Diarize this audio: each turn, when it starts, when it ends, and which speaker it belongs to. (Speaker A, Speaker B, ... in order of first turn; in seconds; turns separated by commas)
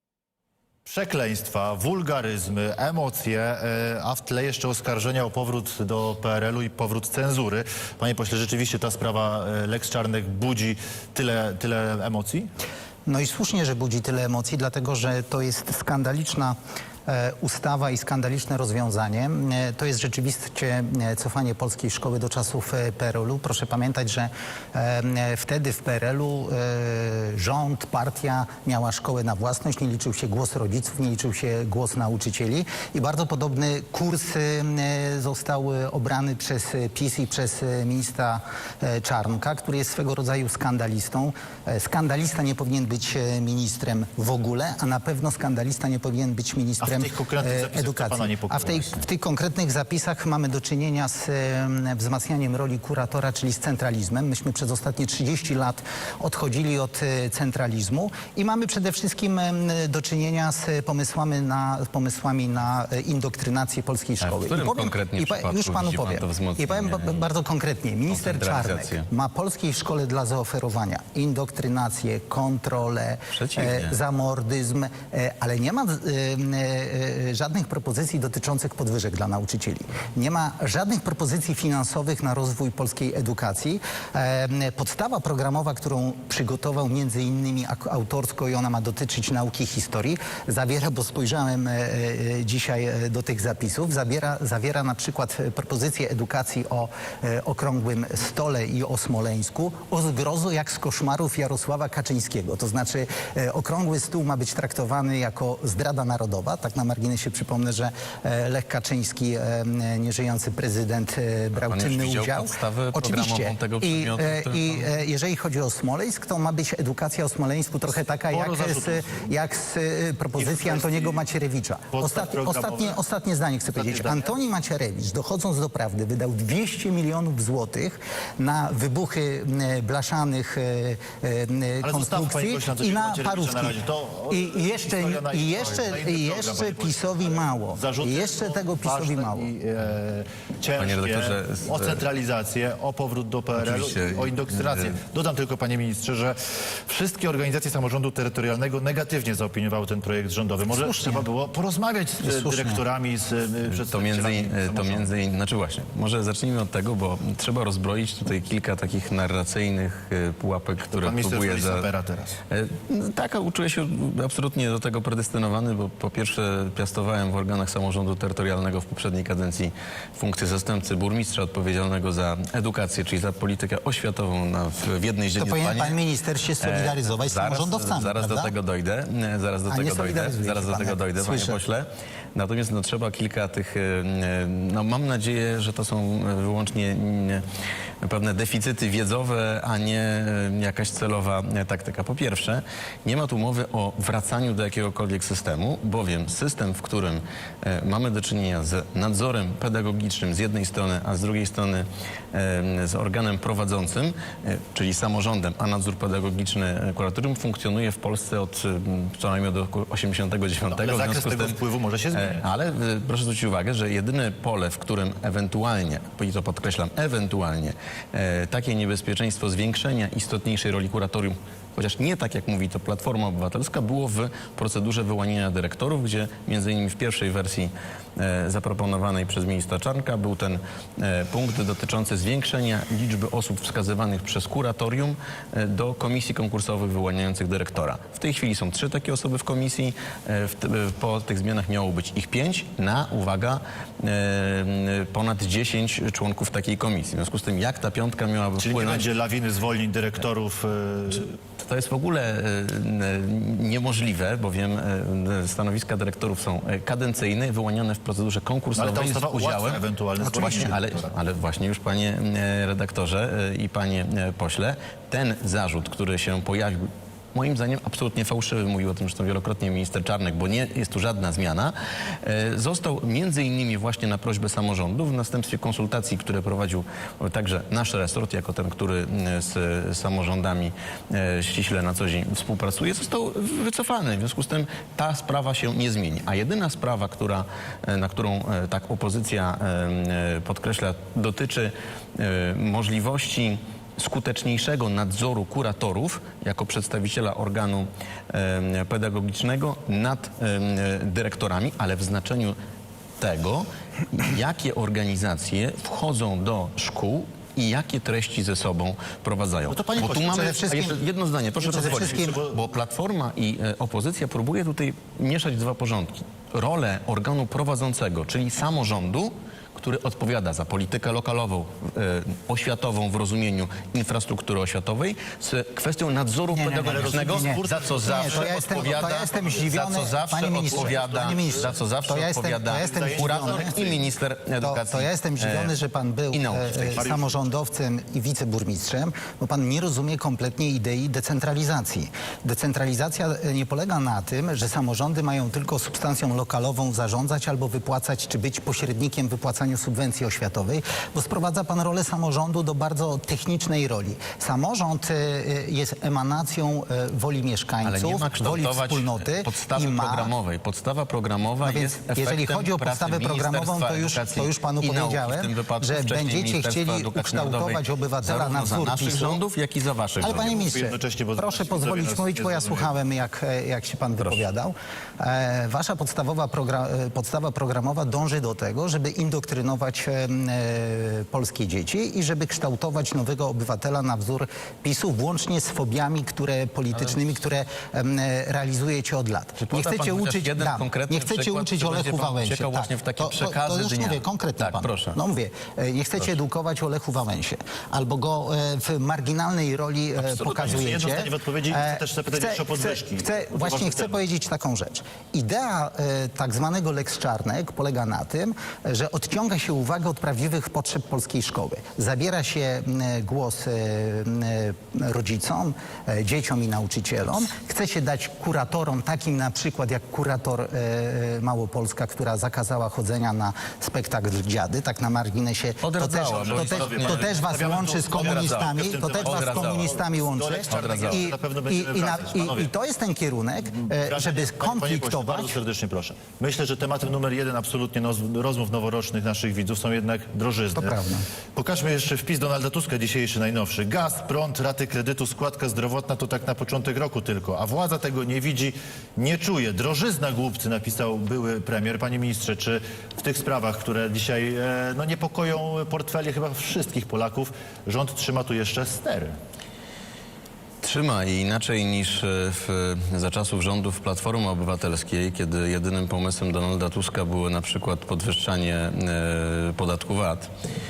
Speaker A: 0.9-12.5, Speaker B: 13.1-16.6, Speaker B: 17.1-133.8, Speaker A: 46.8-48.9, Speaker C: 64.2-67.3, Speaker C: 68.1-69.1, Speaker C: 73.3-74.0, Speaker C: 111.5-114.9, Speaker A: 118.3-119.2, Speaker A: 120.3-121.3, Speaker A: 121.9-123.0, Speaker A: 123.7-124.3, Speaker A: 131.8-146.4, Speaker B: 134.3-139.5, Speaker C: 140.8-142.0, Speaker C: 143.6-145.0, Speaker A: 146.9-155.1, Speaker B: 150.7-151.3, Speaker B: 152.2-152.8, Speaker C: 153.7-161.9, Speaker A: 160.9-162.4, Speaker C: 162.5-176.0, Speaker B: 175.4-178.5, Speaker C: 176.6-187.4, Speaker B: 179.7-181.6, Speaker C: 188.0-211.6, Speaker A: 210.7-212.4, Speaker C: 212.1-249.1, Speaker A: 248.6-251.3, Speaker C: 251.6-302.6, Speaker A: 258.8-261.1, Speaker C: 303.2-335.8, Speaker A: 309.7-310.9, Speaker B: 310.4-310.9, Speaker A: 311.6-312.6, Speaker B: 311.6-312.4, Speaker B: 326.5-333.8, Speaker A: 326.9-329.7, Speaker A: 330.7-331.6, Speaker A: 332.8-334.1, Speaker B: 334.6-360.3, Speaker C: 336.3-337.1, Speaker A: 336.9-337.4, Speaker C: 357.8-370.6, Speaker B: 361.6-369.4, Speaker A: 370.2-372.9, Speaker B: 370.2-435.6, Speaker C: 374.2-374.5, Speaker C: 386.9-387.3, Speaker C: 389.6-395.2, Speaker C: 400.2-400.9, Speaker A: 400.4-404.2, Speaker C: 425.8-430.0, Speaker A: 426.3-432.7, Speaker C: 430.7-431.3, Speaker A: 433.8-441.0, Speaker B: 440.8-441.3, Speaker A: 441.6-459.4, Speaker C: 460.8-470.5